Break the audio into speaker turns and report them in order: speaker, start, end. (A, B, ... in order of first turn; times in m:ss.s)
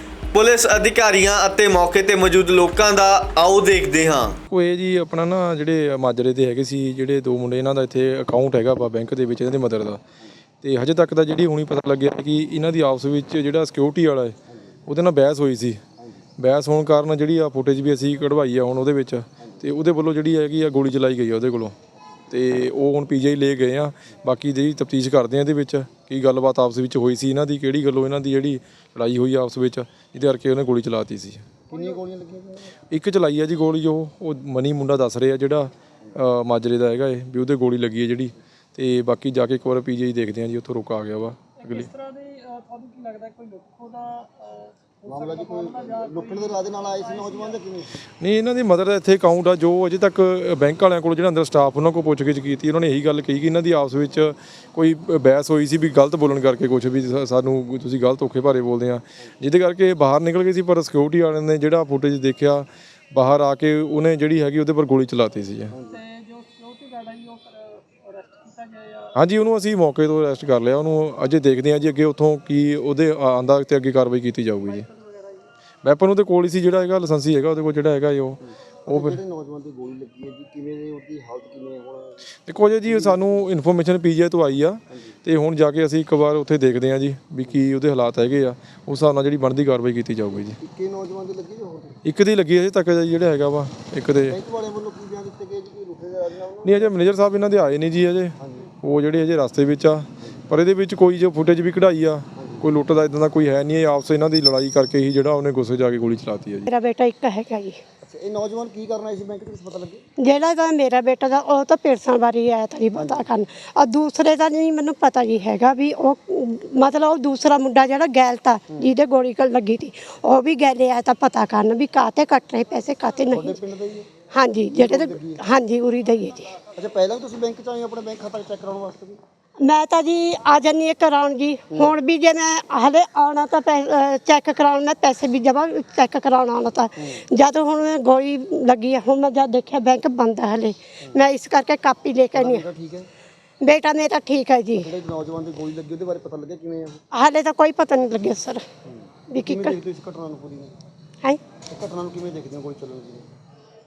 0:00.3-0:04.4 A
0:04.5-0:10.0 B
0:10.6-0:14.4 B
0:14.9-0:15.8 B
0:16.0-0:16.2 C
0:16.4-0:21.8 B
0:22.3-0:31.4 B
0:31.7-0:32.8 C
0:32.9-0:41.9 B
0:41.6-0:47.6 D
0:45.0-0:48.0 C
0:48.2-1:05.8 B
1:05.7-1:06.0 C
1:05.9-1:09.2 D
1:09.2-1:14.9 B
1:14.6-1:15.5 D
1:15.8-1:19.2 B
1:18.4-1:22.3 C
1:22.5-1:30.6 B
1:22.9-1:23.4 C
1:30.6-1:32.0 C
1:32.0-1:34.4 B
1:34.2-1:36.9 C
1:36.6-1:46.7 B
1:38.4-1:38.7 C
1:42.4-1:42.7 C
1:46.7-1:47.8 E
1:48.0-1:50.0 C
1:50.2-2:03.6 E
1:53.0-1:53.3 C
2:03.3-2:05.4 C
2:04.3-2:06.5 E
2:06.7-2:09.2 C
2:09.6-2:22.6 E
2:17.0-2:17.2 C
2:22.3-2:23.1 C
2:23.6-2:24.9 E
2:24.8-2:27.0 C
2:27.1-2:28.6 E
2:28.8-2:30.8 C
2:29.3-2:29.8 E
2:31.7-2:33.3 C